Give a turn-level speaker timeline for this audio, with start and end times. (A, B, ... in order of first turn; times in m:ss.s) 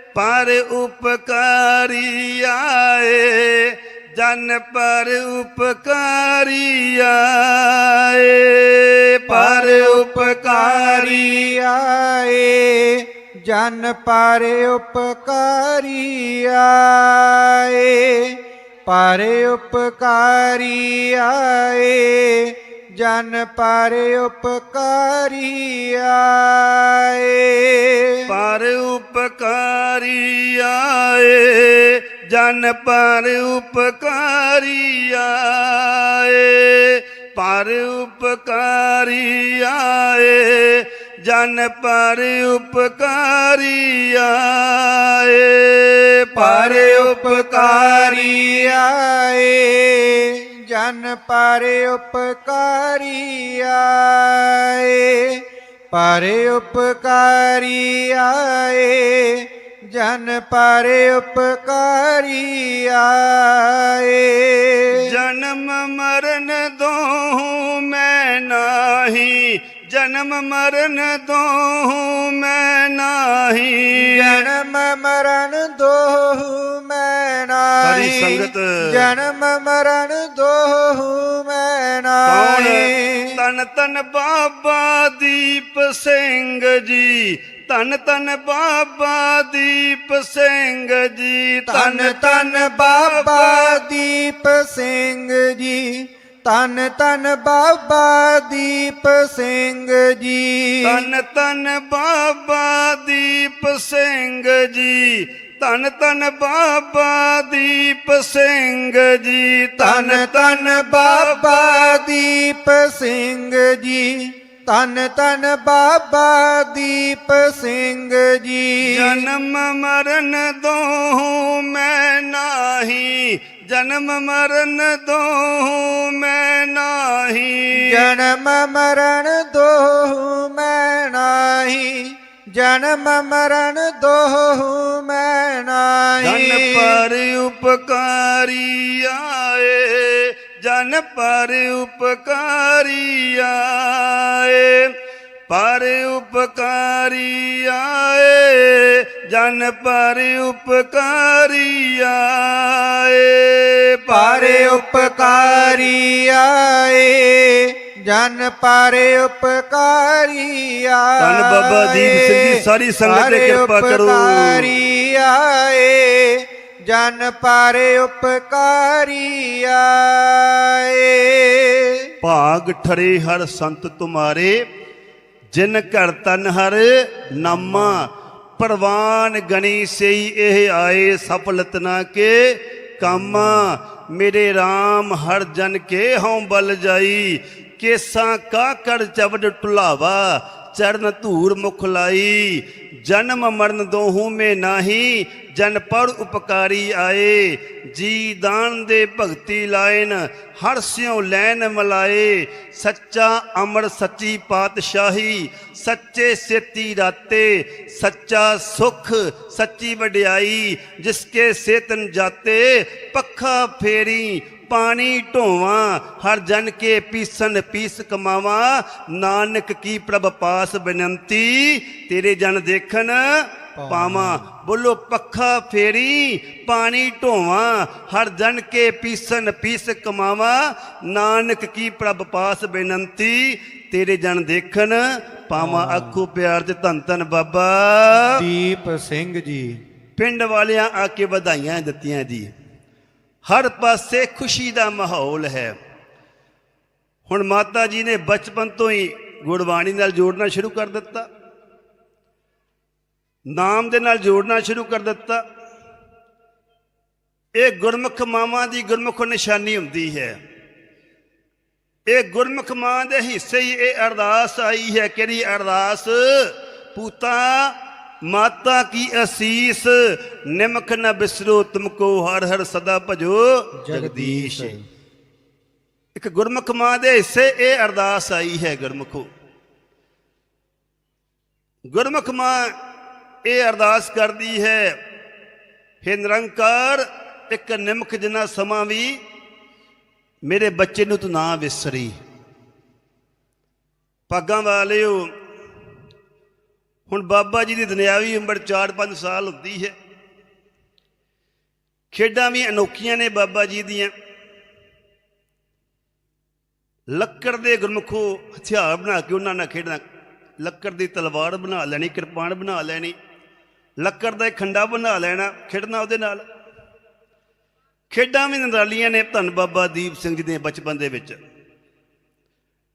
0:00.1-0:11.5 A
0:09.3-0:28.3 B
0:28.3-0:48.3 A
0:46.3-1:05.2 B
1:04.9-1:14.4 A
1:14.0-1:23.4 B
1:17.8-1:19.1 A
1:22.2-1:33.8 A
1:31.7-1:41.1 B
1:40.8-1:52.0 A
1:49.8-1:59.3 B
1:58.8-2:08.0 A
2:07.7-2:17.0 B
2:16.2-2:24.9 A
2:25.5-2:35.9 A
2:34.1-2:52.1 B
2:41.2-2:44.7 A
2:52.2-2:54.6 A
2:55.5-3:58.4 A
3:43.8-3:44.5 B
3:55.6-3:56.2 B
3:58.2-3:59.8 B
4:00.2-4:02.5 A
4:03.4-4:05.7 A
4:07.3-4:11.3 A
4:13.5-4:15.4 A
4:17.6-4:20.4 A
4:22.1-4:34.8 A
4:33.8-4:34.8 B
4:36.2-4:39.3 A
4:41.9-4:42.7 A
4:43.4-4:45.0 A
4:46.0-4:49.2 A
4:50.5-4:52.1 A
4:54.3-4:55.3 A
4:57.1-5:00.0 A
5:02.1-5:04.1 A
5:07.1-5:10.0 A
5:10.6-5:13.2 A
5:14.0-5:16.4 A
5:18.1-5:21.4 A